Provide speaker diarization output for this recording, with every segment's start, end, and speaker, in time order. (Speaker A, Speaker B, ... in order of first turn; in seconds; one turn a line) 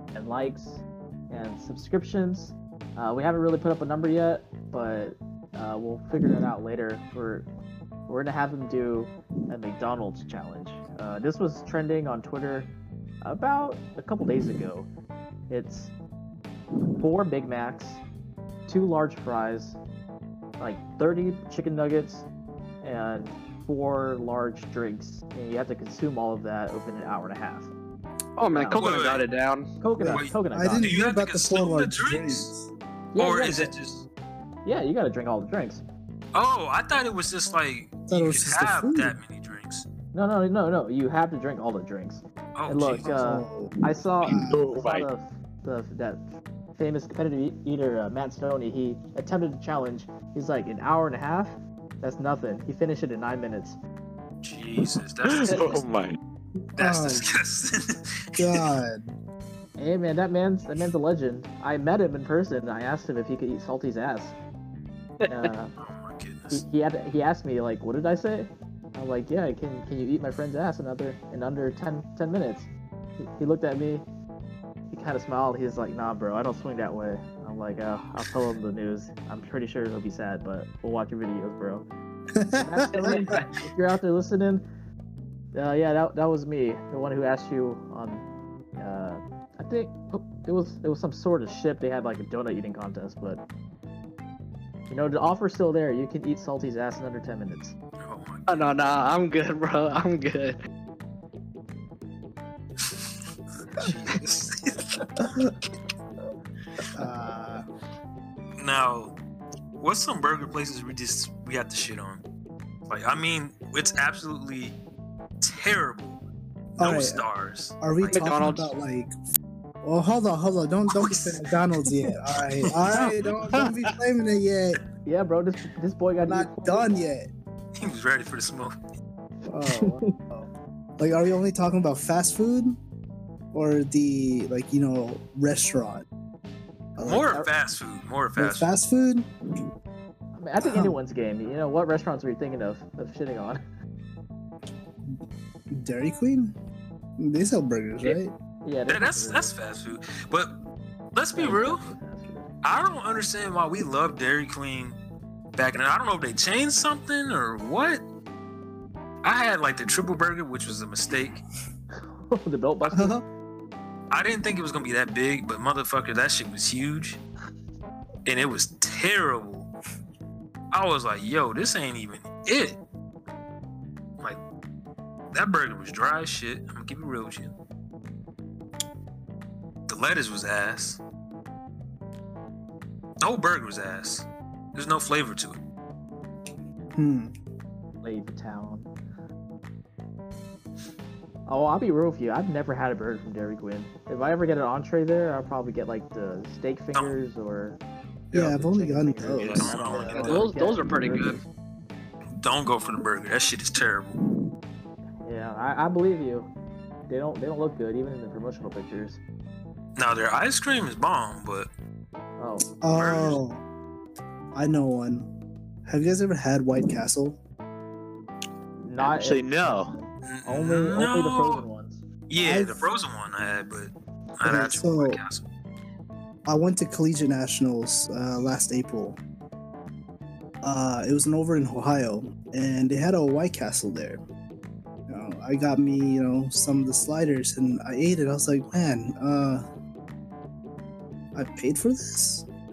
Speaker A: 0.1-7.5
Speaker A: 8.1-14.9
Speaker A: 15.5-15.9
Speaker A: 17.0-18.0
Speaker A: 18.7-19.8
Speaker A: 20.6-22.3
Speaker A: 22.8-27.7
Speaker B: 28.4-29.7
Speaker A: 28.5-28.9
Speaker C: 28.7-29.3
Speaker A: 29.8-30.9
Speaker D: 30.0-32.7
Speaker C: 30.0-32.5
Speaker A: 33.1-33.7
Speaker C: 33.2-34.1
Speaker A: 34.6-35.8
Speaker C: 36.3-39.9
Speaker D: 38.1-39.2
Speaker A: 40.1-53.8
Speaker C: 42.5-43.1
Speaker D: 43.0-44.6
Speaker E: 44.3-45.0
Speaker C: 54.4-55.8
Speaker E: 55.3-56.2
Speaker D: 56.8-57.2
Speaker C: 56.8-58.6
Speaker D: 58.4-59.1
Speaker A: 59.8-64.3
Speaker A: 65.3-65.7
Speaker C: 65.8-66.6
Speaker A: 66.5-72.7
Speaker A: 73.2-74.0
Speaker A: 74.9-81.9
Speaker D: 82.3-83.3
Speaker A: 82.5-84.6
Speaker B: 82.9-83.4
Speaker A: 85.5-88.2
Speaker A: 88.8-93.4
Speaker A: 94.9-97.8
Speaker C: 98.0-98.7
Speaker B: 98.5-100.6
Speaker C: 103.7-105.0
Speaker D: 106.9-107.7
Speaker C: 108.6-109.1
Speaker C: 109.8-112.2
Speaker C: 112.9-114.8
Speaker C: 115.4-116.2
Speaker C: 116.8-118.3
Speaker D: 116.8-117.2
Speaker D: 117.8-119.1
Speaker B: 118.0-118.7
Speaker D: 119.8-124.8
Speaker C: 121.0-121.3
Speaker A: 125.0-127.1
Speaker D: 126.2-127.3
Speaker C: 127.8-128.7
Speaker D: 129.5-132.8
Speaker A: 129.6-129.9
Speaker D: 133.5-136.0
Speaker D: 137.0-137.3
Speaker C: 137.0-138.7
Speaker D: 138.4-139.3
Speaker A: 140.3-143.6
Speaker D: 140.6-140.9
Speaker D: 145.7-146.5
Speaker D: 147.2-148.3
Speaker A: 148.0-149.5
Speaker C: 148.9-150.5
Speaker C: 151.1-151.9
Speaker A: 151.3-152.5
Speaker C: 152.6-155.0
Speaker C: 155.5-158.0
Speaker C: 159.2-161.4
Speaker A: 161.9-163.2
Speaker D: 162.9-163.2
Speaker C: 164.1-167.2
Speaker C: 168.2-169.7
Speaker C: 170.7-172.8
Speaker C: 175.3-177.5
Speaker C: 179.9-181.0
Speaker C: 183.2-185.6
Speaker D: 186.9-187.3
Speaker A: 188.0-188.9
Speaker A: 191.4-197.8
Speaker D: 198.3-200.4
Speaker A: 198.3-201.4
Speaker C: 199.3-200.5
Speaker B: 200.2-201.4
Speaker C: 202.4-204.2
Speaker A: 205.2-206.5
Speaker A: 207.1-209.2
Speaker C: 209.9-211.7
Speaker A: 212.4-212.7
Speaker D: 212.8-213.6
Speaker C: 212.9-213.4
Speaker D: 214.5-215.3
Speaker D: 215.8-217.4
Speaker A: 218.8-222.0
Speaker E: 219.0-219.9
Speaker C: 220.2-221.6
Speaker C: 222.3-225.4
Speaker D: 222.4-222.8
Speaker D: 224.4-225.2
Speaker D: 226.4-229.2
Speaker D: 230.6-234.2
Speaker D: 235.1-239.7
Speaker D: 241.3-242.4